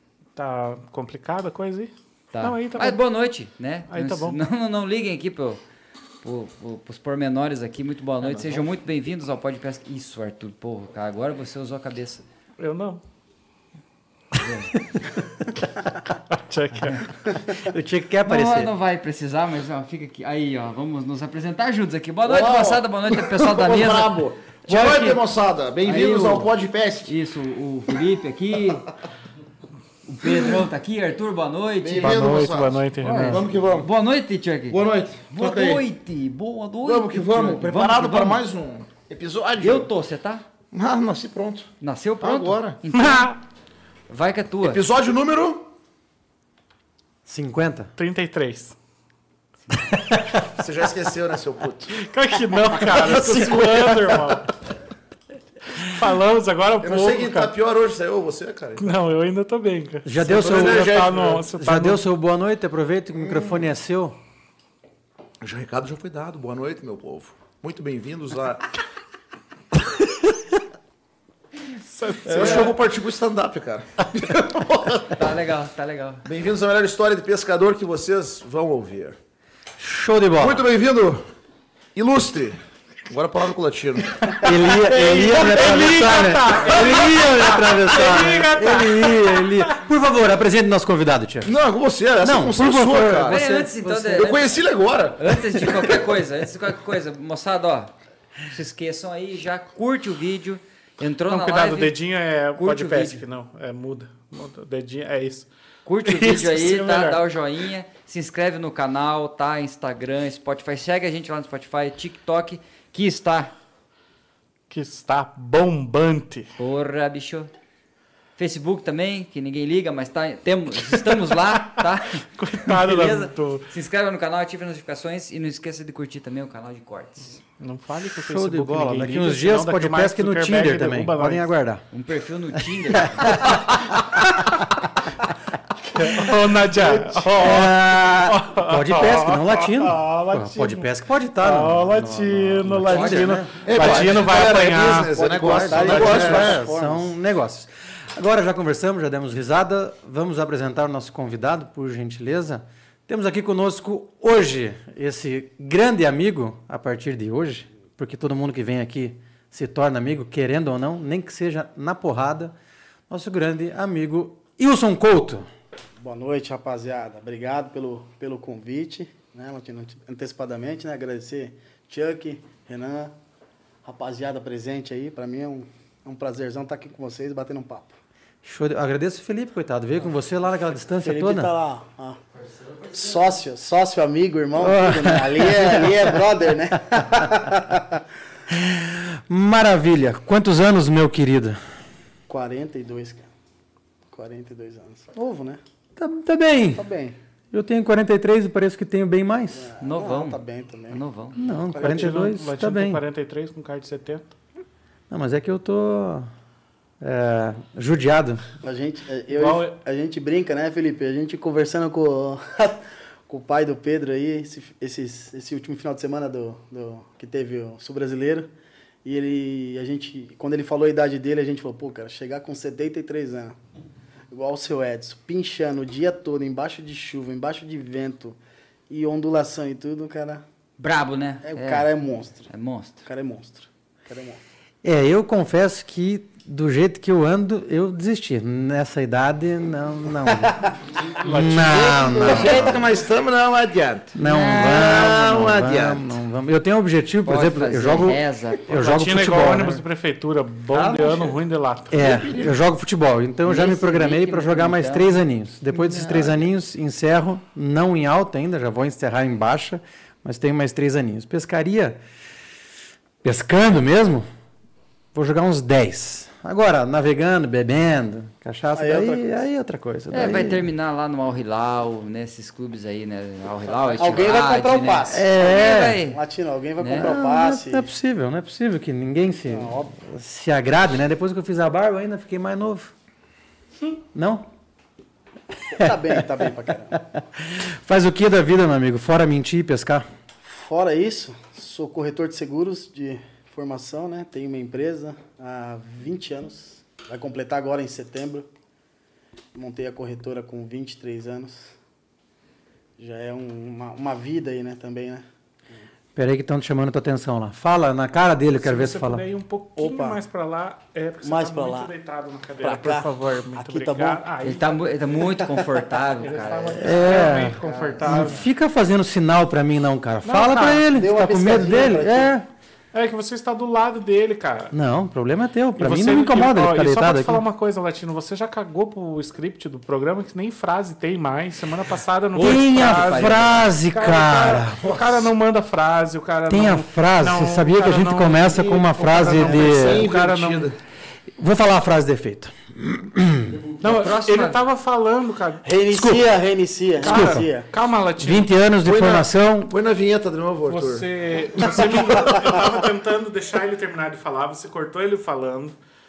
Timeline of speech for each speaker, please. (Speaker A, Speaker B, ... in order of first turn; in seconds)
Speaker A: 0.3-3.0, 3.9-4.4, 12.6-13.0, 16.3-17.1, 32.0-33.5, 42.9-43.4, 48.0-48.7, 51.9-54.5, 55.8-57.5, 58.8-62.0, 71.9-72.7, 85.3-89.8, 101.3-105.5, 106.0-107.2, 114.7-116.5, 122.2-123.7, 127.6-131.5, 136.0-145.2, 201.8-204.2, 209.3-209.8, 241.2-242.4, 248.7-252.0, 308.6-314.9, 316.2-318.4, 320.2-320.9, 321.5-322.0, 322.9-324.7, 325.8-340.8, 343.8-345.6, 347.0-348.5, 350.6-355.7
Speaker B: 2.3-5.6, 6.2-12.2, 14.4-14.7, 18.2-25.2, 25.8-26.5, 27.0-28.9, 30.0-32.2, 33.0-38.4, 39.6-40.4, 41.8-43.4, 44.1-44.8, 75.1-76.2, 93.2-94.6, 95.2-97.9, 98.4-101.9, 102.6-103.2, 105.8-113.5, 116.6-117.5, 118.4-127.4, 131.9-133.6, 182.4-183.2, 199.8-201.4, 230.8-231.9, 232.4-233.1, 247.2-248.7, 253.4-255.2, 270.1-276.2, 276.8-277.1, 314.4-318.3, 332.7-333.3, 343.8-344.6
Speaker C: 8.2-8.6, 22.2-27.1, 31.8-33.9, 34.7-35.8, 36.8-39.9, 40.7-41.7, 42.2-42.8, 44.6-45.7, 50.5-52.0, 52.9-54.4, 56.8-58.9, 60.3-61.5, 65.4-68.6, 72.2-75.2, 76.2-79.2, 80.4-81.2, 81.9-86.1, 91.4-93.4, 94.1-95.5, 143.6-146.7, 241.5-246.1, 251.9-252.5, 255.7-256.4, 338.5-340.8, 348.8-351.1, 351.6-352.4
Speaker D: 17.6-18.7, 32.0-32.4, 47.2-47.9, 49.9-50.4, 60.0-60.9, 61.6-64.2, 79.8-80.7, 84.4-91.5, 92.2-94.2, 128.2-131.8, 132.6-134.2, 136.0-136.2, 137.2-144.2, 145.3-162.5, 163.1-165.5, 178.4-181.5, 184.6-186.2, 186.8-187.6, 188.5-191.6, 195.9-196.8, 197.5-199.7, 201.3-203.0, 205.1-206.3, 207.0-208.4, 234.8-242.8, 244.1-249.8, 250.7-251.2, 251.9-262.0, 263.2-264.3, 265.1-270.6, 275.1-276.0, 276.9-282.9, 284.1-284.5, 285.7-290.1, 306.1-309.2, 316.8-322.4, 324.7-327.4, 332.4-335.1, 336.5-340.1, 341.4-343.6, 345.9-346.3, 347.0-347.5, 348.2-349.7
Speaker E: 145.1-147.1, 166.0-173.1, 173.8-177.9, 181.0-182.2, 182.9-188.0, 192.3-193.3, 194.1-195.6, 196.7-197.2, 199.5-202.2, 208.6-218.5, 219.0-223.6, 224.3-228.4, 228.9-230.4, 231.4-232.5, 233.0-234.4, 268.7-269.4, 273.9-277.9, 279.5-279.9, 285.7-287.0, 290.4-298.5, 299.5-301.7, 303.0-305.2, 309.8-310.2, 311.2-311.9, 312.6-314.2, 315.2-316.0, 320.9-322.4, 345.6-347.7